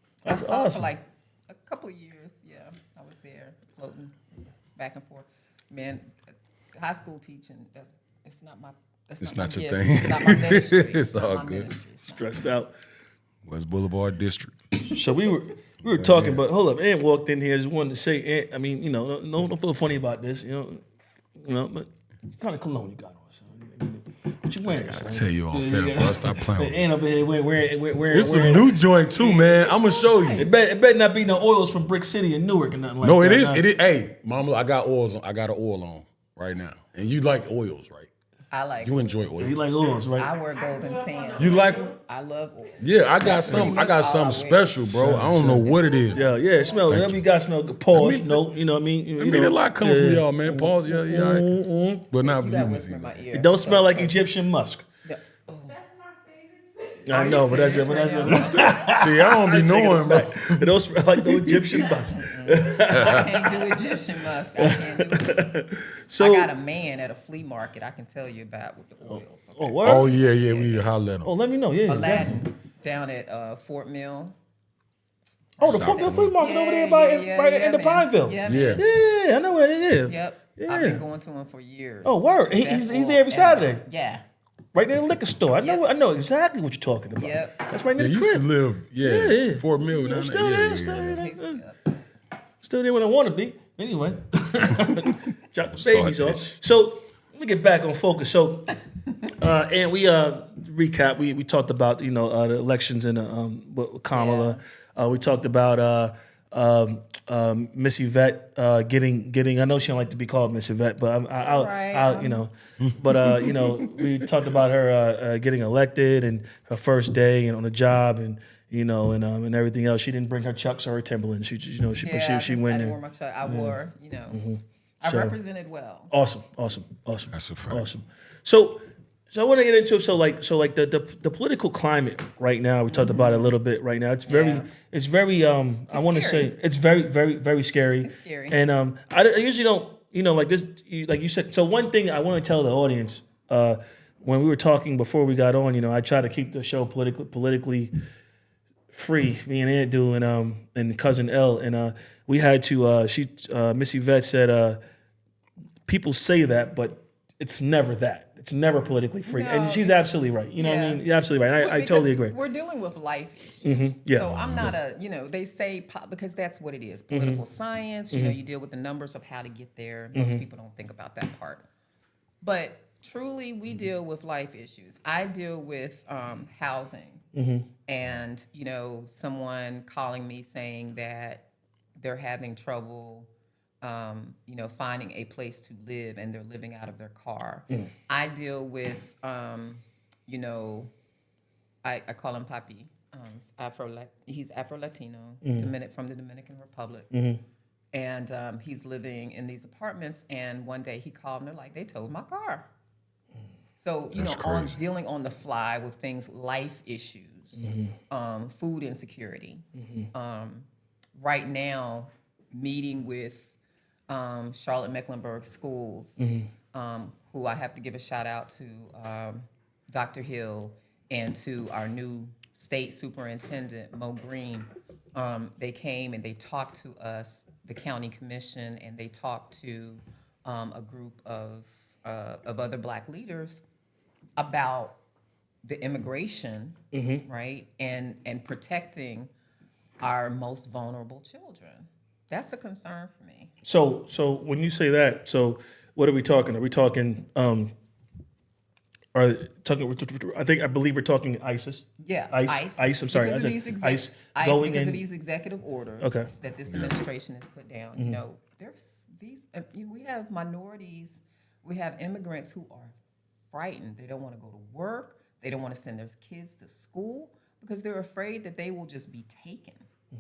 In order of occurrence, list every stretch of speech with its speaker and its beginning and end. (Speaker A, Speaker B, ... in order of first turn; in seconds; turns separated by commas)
Speaker A: 0.2-4.2, Speaker B: 0.2-0.9, Speaker A: 4.8-6.2, Speaker A: 6.7-12.3, Speaker C: 9.2-11.8, Speaker B: 12.1-12.7, Speaker C: 13.4-14.6, Speaker B: 14.9-20.8, Speaker C: 15.8-16.4, Speaker B: 21.4-28.8, Speaker C: 24.9-26.8, Speaker C: 28.1-30.5, Speaker A: 29.2-30.5, Speaker B: 30.4-33.6, Speaker C: 33.0-38.1, Speaker A: 38.5-39.1, Speaker C: 38.8-39.6, Speaker B: 39.3-40.3, Speaker A: 40.2-44.8, Speaker D: 40.9-41.9, Speaker C: 41.4-41.9, Speaker C: 42.8-46.2, Speaker B: 43.5-43.8, Speaker B: 44.9-52.1, Speaker A: 45.7-46.1, Speaker D: 46.0-46.7, Speaker C: 46.8-47.2, Speaker C: 47.9-48.5, Speaker C: 49.2-51.5, Speaker C: 52.1-53.2, Speaker A: 52.2-54.2, Speaker B: 53.3-54.9, Speaker A: 55.0-55.8, Speaker D: 55.8-58.7, Speaker B: 57.0-63.8, Speaker A: 57.1-58.8, Speaker C: 58.8-60.8, Speaker A: 62.1-65.5, Speaker C: 62.9-63.3, Speaker B: 64.6-66.5, Speaker A: 66.2-70.9, Speaker B: 69.1-70.1, Speaker C: 69.8-71.3, Speaker B: 71.2-72.4, Speaker A: 71.9-74.3, Speaker A: 75.6-78.8, Speaker B: 75.6-81.0, Speaker C: 75.6-76.4, Speaker C: 78.5-78.8, Speaker A: 80.0-84.2, Speaker B: 82.0-83.8, Speaker B: 84.7-88.5, Speaker A: 85.6-85.8, Speaker A: 87.2-87.7, Speaker C: 88.0-91.2, Speaker B: 89.0-91.6, Speaker A: 91.1-91.9, Speaker B: 92.6-123.8, Speaker C: 95.7-96.5, Speaker A: 104.1-104.6, Speaker A: 111.3-112.4, Speaker C: 112.8-114.3, Speaker A: 122.0-124.4, Speaker B: 124.3-125.4, Speaker A: 125.0-126.1, Speaker B: 126.1-147.9, Speaker C: 127.3-127.9, Speaker A: 132.9-133.5, Speaker A: 134.3-134.7, Speaker A: 135.9-136.5, Speaker A: 138.0-138.6, Speaker B: 148.9-154.8, Speaker B: 155.9-162.4, Speaker A: 159.2-161.0, Speaker A: 161.6-171.7, Speaker B: 163.6-164.8, Speaker C: 164.3-164.7, Speaker B: 167.1-167.4, Speaker B: 168.1-168.4, Speaker B: 170.1-170.4, Speaker A: 172.4-177.2, Speaker B: 177.3-177.7, Speaker A: 177.9-181.4, Speaker A: 182.0-183.3, Speaker A: 183.8-190.9, Speaker A: 191.8-197.1, Speaker B: 195.4-195.7, Speaker B: 197.1-197.4, Speaker A: 197.9-202.7, Speaker A: 203.8-213.5, Speaker C: 204.1-204.8, Speaker B: 207.6-207.9, Speaker B: 209.8-210.1, Speaker A: 214.1-233.6, Speaker B: 216.2-216.5, Speaker A: 234.4-235.0, Speaker A: 235.6-239.3, Speaker B: 236.9-237.2, Speaker A: 240.0-243.5, Speaker B: 243.6-247.7, Speaker B: 249.2-255.0, Speaker A: 252.0-263.0, Speaker B: 256.0-256.3, Speaker C: 256.7-256.9, Speaker B: 258.0-258.2, Speaker A: 263.5-269.9